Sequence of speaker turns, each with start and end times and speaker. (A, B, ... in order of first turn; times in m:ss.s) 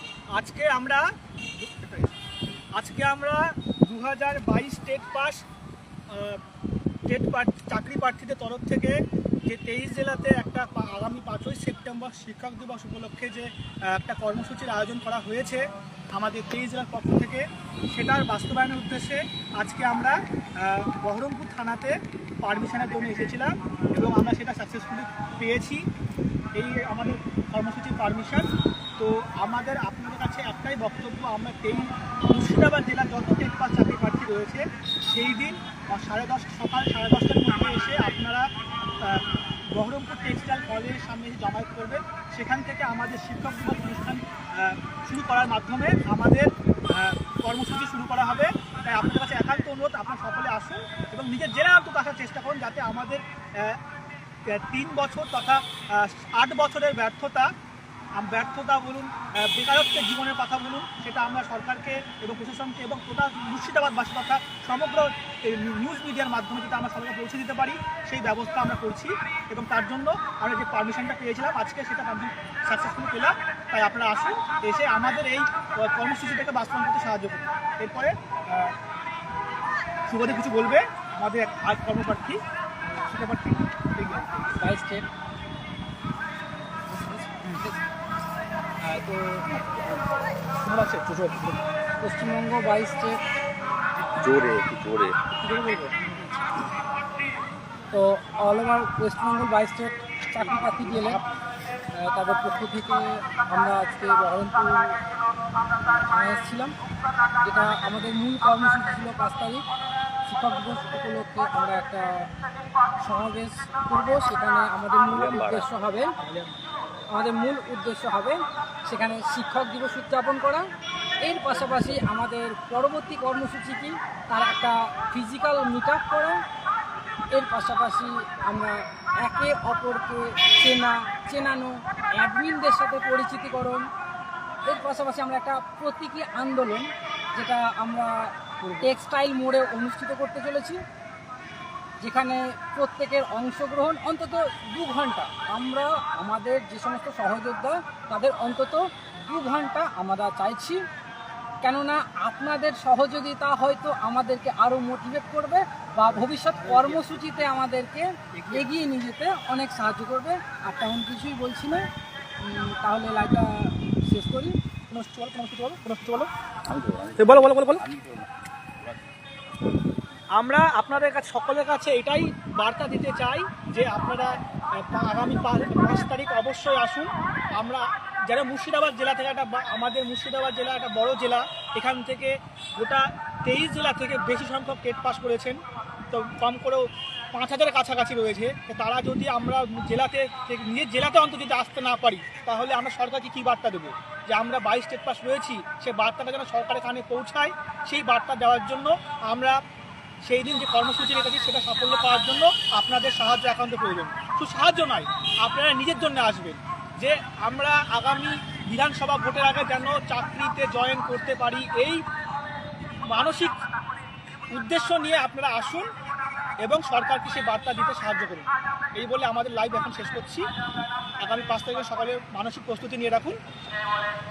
0:00.3-0:01.0 A
0:01.6-0:02.1 A
0:02.8-0:05.4 A
0:06.1-0:06.4 A
0:07.1-0:25.8 A
0:26.5-0:38.4 A
0:39.0-0:53.8 A
0:54.5-0:57.5 A
0:58.2-1:18.7 A
1:20.1-1:22.4 A
1:22.9-1:24.6 A
1:24.6-1:25.0 B
1:27.5-1:27.7 B
1:28.8-1:29.4 A
1:29.5-1:30.0 C
1:30.6-1:31.6 A
1:32.0-1:33.2 B
1:34.2-1:35.2 C
1:35.3-1:36.2 A
1:37.9-1:41.2 B
1:40.8-1:41.3 A
1:41.9-1:45.0 B
1:45.9-1:46.7 B
1:47.4-1:49.6 B
1:50.2-1:52.3 B
1:53.0-1:56.1 B
1:55.0-1:55.7 C
1:56.2-1:56.6 A
1:57.1-2:00.7 B
2:01.2-2:06.4 B
2:01.6-2:02.0 A
2:07.3-2:13.9 B
2:14.7-2:20.8 B
2:18.6-2:18.9 A
2:22.0-2:30.8 B
2:31.6-2:41.8 B
2:36.0-2:37.6 A
2:38.3-2:38.7 A
2:42.4-2:44.6 B
2:44.9-2:46.3 A
2:46.7-2:48.3 C
2:47.2-2:47.8 A
2:50.3-3:05.6 A
3:06.1-3:19.6 A
3:20.2-3:32.0 A
3:33.1-3:33.6 A
3:34.5-3:35.8 A
3:36.6-3:40.4 A
3:41.2-3:43.4 A